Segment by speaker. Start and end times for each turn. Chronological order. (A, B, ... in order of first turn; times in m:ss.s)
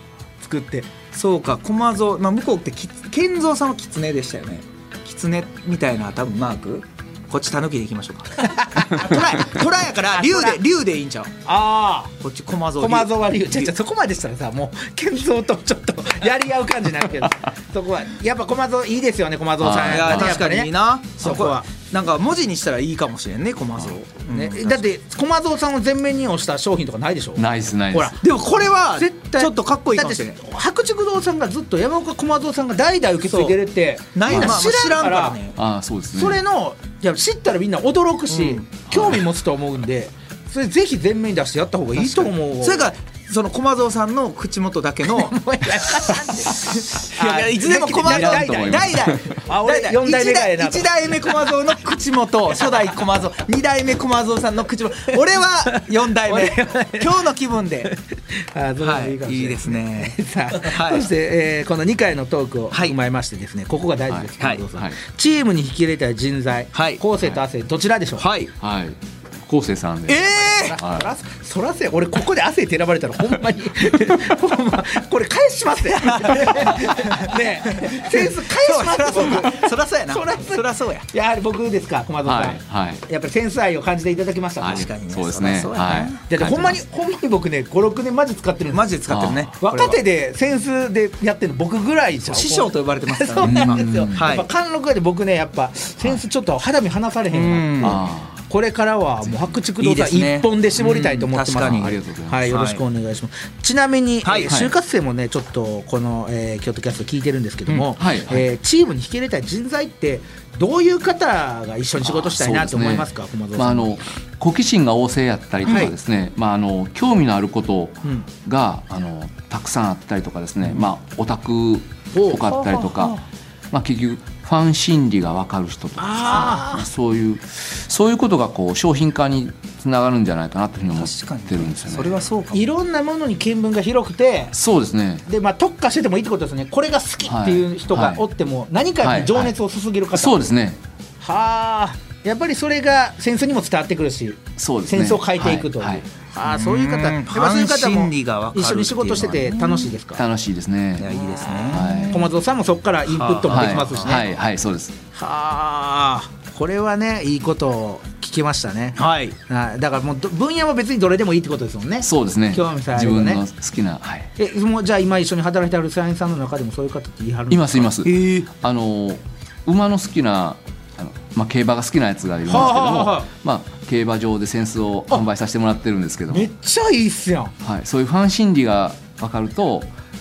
0:00.4-0:00.9 A
0:01.1-0:11.3 B
0:08.5-0:09.2 A
0:10.1-0:10.6 A
0:11.4-0:12.1 A
0:12.2-0:13.7 B
0:12.8-0:21.7 A
0:19.6-0:20.4 C
0:19.8-0:24.8 B
0:24.3-0:28.2 A
0:27.4-0:28.2 C
0:28.2-0:30.4 B
0:28.9-0:35.4 A
0:33.3-0:33.6 B
0:34.1-0:35.6 B
0:34.3-0:34.6 C
0:35.6-0:36.4 C
0:36.1-0:42.9 A
0:38.3-0:38.7 B
0:38.9-0:39.2 C
0:42.0-0:45.4 B
0:45.1-0:50.9 A
0:46.4-0:57.9 B
0:48.0-0:49.4 C
0:55.8-0:57.2 A
0:57.8-1:08.3 A
0:58.8-1:01.1 B
1:02.7-1:03.0 B
1:04.1-1:05.0 C
1:06.7-1:07.0 B
1:08.2-1:08.5 B
1:08.6-1:11.1 C
1:10.1-1:10.8 B
1:10.3-1:24.9 A
1:16.0-1:21.1 B
1:22.2-1:23.0 C
1:24.6-1:26.2 B
1:24.6-1:26.8 C
1:26.3-1:28.9 A
1:28.7-1:30.0 B
1:29.1-1:29.5 C
1:29.6-1:54.0 A
1:32.2-1:34.5 B
1:33.4-1:34.3 C
1:37.3-1:38.0 B
1:37.8-1:38.4 C
1:39.8-1:41.9 B
1:41.5-1:42.5 C
1:42.5-1:42.8 B
1:44.2-1:44.5 B
1:44.5-1:44.7 C
1:48.0-1:48.4 C
1:52.0-2:03.2 C
1:55.7-1:55.9 B
2:02.1-2:02.9 A
2:03.7-2:12.2 C
2:06.0-2:06.8 A
2:10.9-2:12.7 B
2:12.5-2:14.5 A
2:14.5-2:15.3 C
2:15.3-2:20.5 A
2:17.2-2:18.2 C
2:19.0-2:19.5 C
2:20.1-2:20.8 C
2:21.2-2:30.2 A
2:24.6-2:26.0 C
2:26.4-2:29.8 B
2:30.1-2:31.1 C
2:31.0-2:32.2 B
2:31.1-2:34.3 A
2:31.7-2:32.2 C
2:33.1-2:34.2 B
2:33.5-2:35.0 C
2:35.1-2:43.4 A
2:39.0-2:39.4 B
2:42.0-2:44.3 C
2:44.4-2:48.0 A
2:47.5-2:56.5 C
2:48.0-2:48.5 B
2:52.5-2:53.3 A
2:56.3-2:57.5 A
2:57.6-2:59.9 C